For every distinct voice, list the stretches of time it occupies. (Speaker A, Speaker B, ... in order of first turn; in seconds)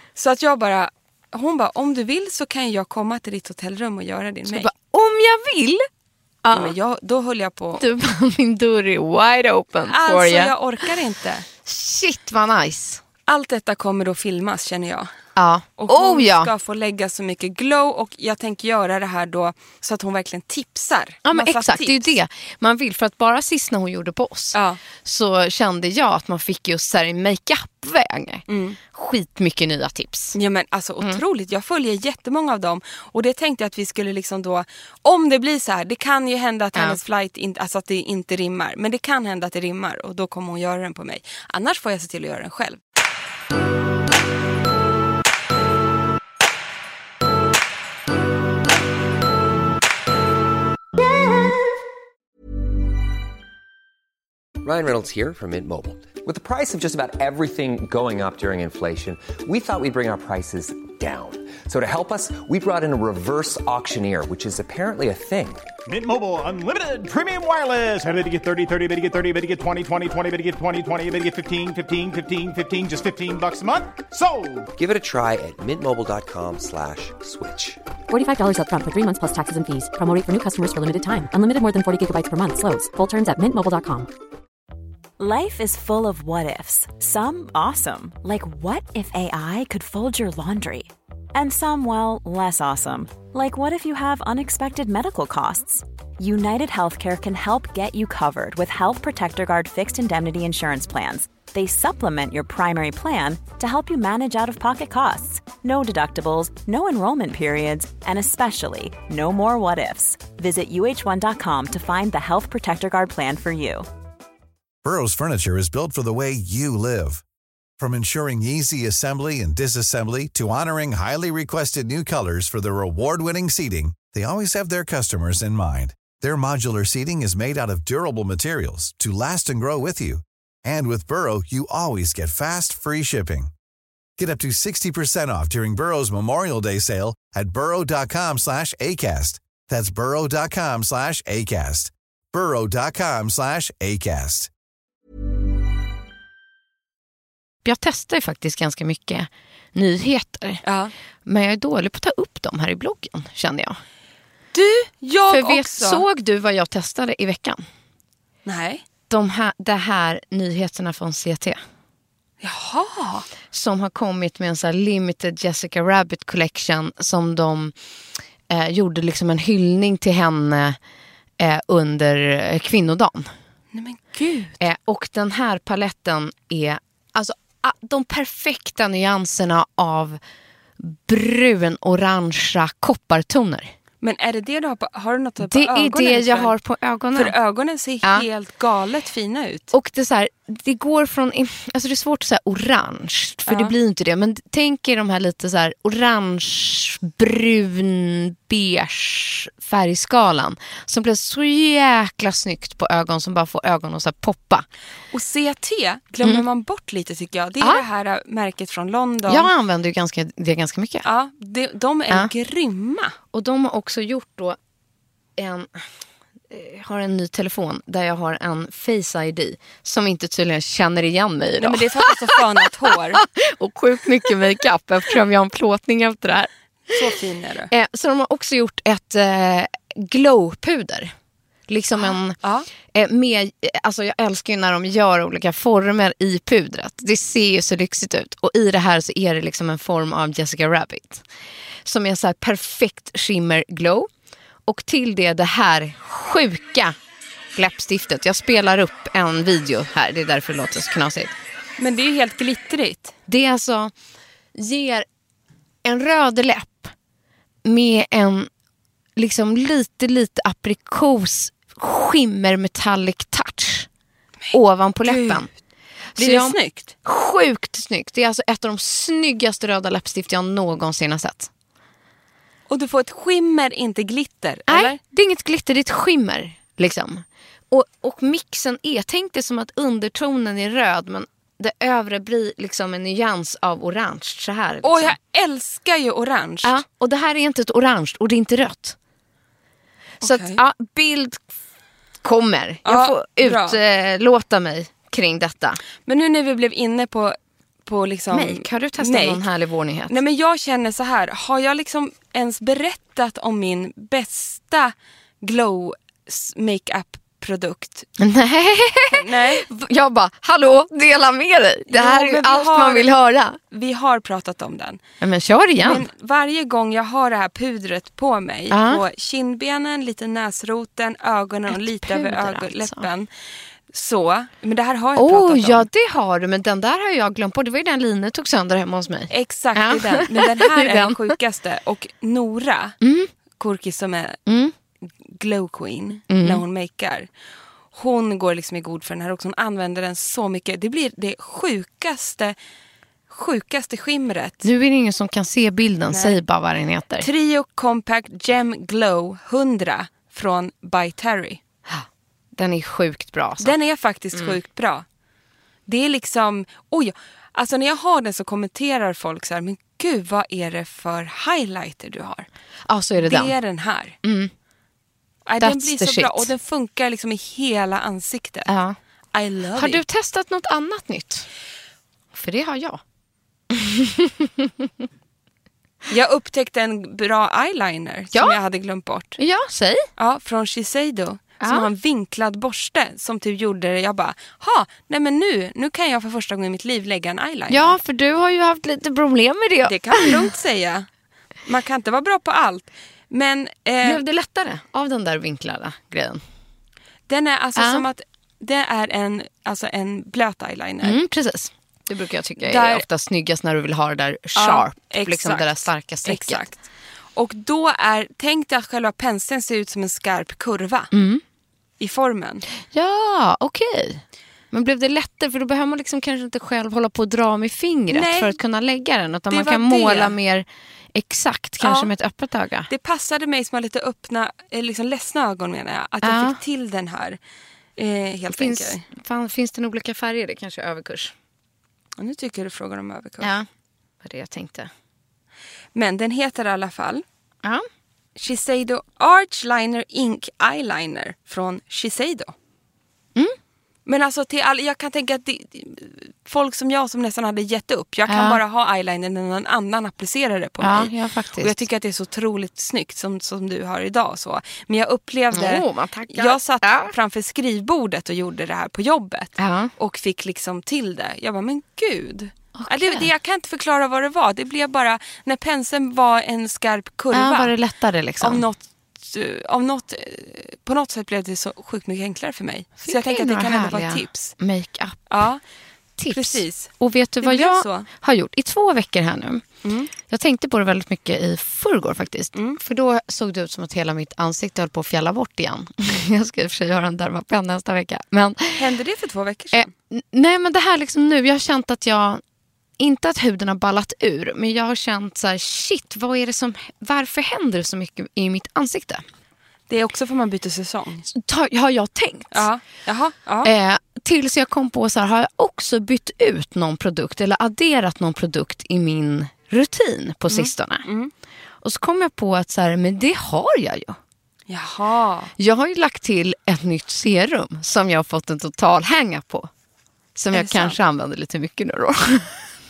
Speaker A: 0.1-4.7, 6.5-7.8, 9.9-11.4, 13.3-15.1, 15.8-22.2, 24.5-24.8, 28.5-28.8, 30.3-42.8, 150.6-150.9, 154.5-156.0, 158.4-158.8, 162.4-163.3, 173.7-174.6, 184.0-186.5, 187.1-189.7, 193.5-193.7, 205.1-209.5, 211.0-213.1, 221.6-223.2, 226.9-227.7, 231.9-232.7, 251.8-253.1, 265.0-265.5, 266.2-266.9, 272.7-275.0, 284.8-286.8, 290.2-290.6, 292.8-293.8, 296.1-299.4, 300.1-308.1, 309.1-309.6, 311.9-313.1, 313.7-315.0, 315.8-323.3, 323.9-325.9, 329.3-333.0, 333.6-334.4, 335.2-337.3, 337.9-342.6, 343.3-344.6, 346.1-346.4, 347.2-351.6, 353.6-355.0, 355.9-362.5, 363.2-364.1, 365.4-368.7, 369.3-370.0, 376.1-379.4, 380.2-388.0, 389.9-391.1, 391.6-394.2, 397.3-401.2, 402.6-403.0, 404.6-406.8, 407.4-411.1, 412.0-412.6, 418.1-418.6, 419.5-420.3, 421.8-422.1, 422.9-427.4, 428.0-429.0, 432.2-433.5, 435.9-437.2, 438.4-442.5, 444.1-467.7, 468.4-474.5, 475.3-475.6, 476.3-478.1, 479.8-480.1, 488.7-489.9, 499.9-501.3, 502.5-503.7, 510.5-511.3, 514.7-515.5, 520.5-521.0
Speaker B: 4.5-5.9, 6.4-6.7, 7.8-10.5, 11.6-13.0, 15.3-16.5, 21.2-30.3, 147.6-150.6, 151.2-153.8, 155.3-157.6, 159.1-161.6, 163.5-167.7, 168.5-170.8, 171.4-173.3, 174.6-180.2, 180.8-183.7, 185.4-187.3, 189.7-204.7, 209.3-211.1, 213.3-214.6, 215.4-215.7, 216.5-222.4, 223.1-227.0, 227.7-231.1, 231.7-232.4, 232.9-241.2, 241.8-244.1, 244.7-246.9, 247.6-251.3, 253.3-253.9, 254.6-255.1, 255.8-256.9, 257.6-258.5, 259.2-263.9, 264.5-265.5, 266.1-271.5, 274.7-285.1, 286.6-288.9, 290.2-291.4, 292.2-295.8, 298.3-300.2, 308.2-313.6, 315.2-316.0, 318.7-319.0, 321.7-323.1, 325.2-331.3, 333.0-333.3, 334.5-334.7, 336.3-336.6, 344.6-347.3, 351.9-353.8, 362.9-363.5, 364.2-364.5, 365.6-366.5, 368.7-369.0, 369.8-371.5, 372.3-373.0, 373.7-374.9, 378.3-378.6, 379.4-380.1, 387.7-390.4, 394.0-396.4, 397.8-398.1, 401.0-406.6, 411.1-411.4, 412.9-422.9, 426.2-426.6, 428.5-431.3, 433.4-433.6, 434.2-434.9, 448.3-448.6, 450.8-451.8, 455.5-457.1, 459.6-459.9, 462.8-463.3, 467.3-468.6, 473.0-475.3, 476.2-479.6, 480.2-488.8, 489.7-492.4, 493.0-499.2, 501.3-502.6, 503.6-511.1, 511.8-514.2, 515.6-519.7, 520.4-522.6
Speaker C: 54.6-65.6, 74.8-77.8
Speaker D: 65.9-74.7
Speaker E: 78.1-84.1
Speaker F: 85.2-113.9
Speaker G: 114.8-117.2, 117.8-133.5, 134.2-144.5